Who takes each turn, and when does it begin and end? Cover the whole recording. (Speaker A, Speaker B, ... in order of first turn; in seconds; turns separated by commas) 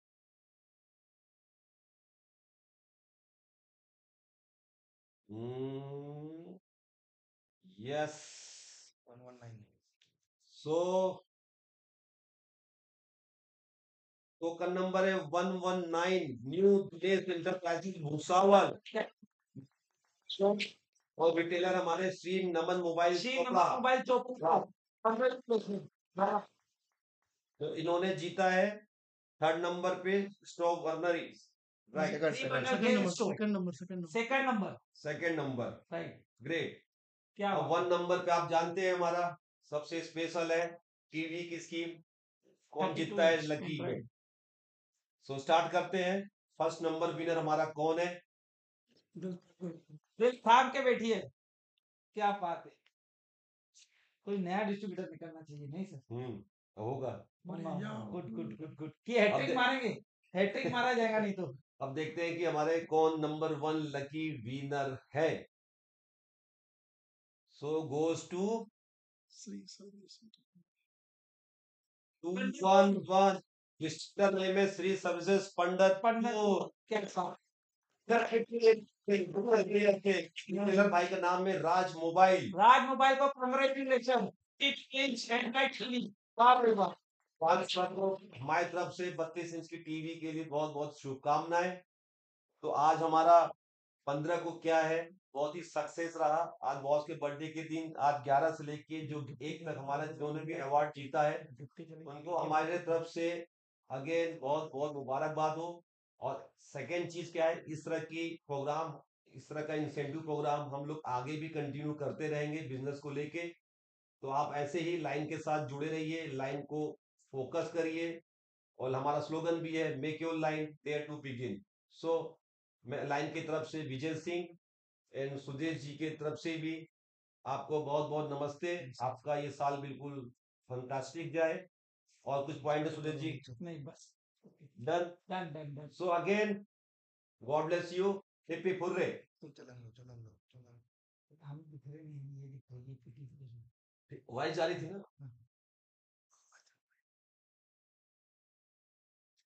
Speaker A: 5.3-6.5, Speaker A: 7.7-8.9, Speaker B: 9.1-9.8, Speaker A: 10.5-11.2, Speaker A: 14.4-18.8, Speaker A: 20.3-20.6, Speaker A: 21.2-23.8, Speaker C: 23.1-24.6, Speaker A: 24.4-26.4, Speaker A: 27.6-28.8, Speaker A: 29.4-32.2, Speaker B: 31.9-32.9, Speaker D: 31.9-34.2, Speaker C: 32.3-33.4, Speaker C: 34.1-34.8, Speaker A: 35.0-35.8, Speaker C: 35.9-36.2, Speaker A: 36.4-36.8, Speaker C: 37.4-37.9, Speaker A: 37.5-42.0, Speaker A: 42.7-44.0, Speaker C: 42.8-44.1, Speaker A: 45.2-48.2, Speaker D: 49.2-50.0, Speaker C: 50.2-51.3, Speaker C: 52.1-52.8, Speaker C: 54.2-56.0, Speaker A: 56.1-57.2, Speaker C: 57.5-61.6, Speaker D: 57.5-58.7, Speaker A: 59.3-59.6, Speaker A: 60.7-61.0, Speaker A: 61.8-65.4, Speaker A: 67.5-68.7, Speaker D: 69.3-70.6, Speaker A: 72.2-76.7, Speaker C: 72.3-73.1, Speaker C: 76.0-77.3, Speaker A: 78.1-82.5, Speaker C: 82.5-86.9, Speaker A: 87.4-91.8, Speaker A: 92.6-93.5, Speaker A: 94.1-101.4, Speaker C: 99.0-103.0, Speaker A: 102.1-113.5, Speaker A: 114.2-118.2, Speaker A: 118.8-124.5, Speaker A: 125.1-126.9, Speaker A: 127.5-131.7, Speaker A: 132.2-133.4, Speaker B: 132.9-133.6, Speaker C: 133.6-134.7, Speaker A: 134.8-135.2, Speaker C: 135.3-135.9, Speaker A: 135.9-136.7, Speaker A: 137.4-139.2, Speaker B: 139.4-140.8, Speaker C: 141.4-143.7, Speaker A: 144.1-145.0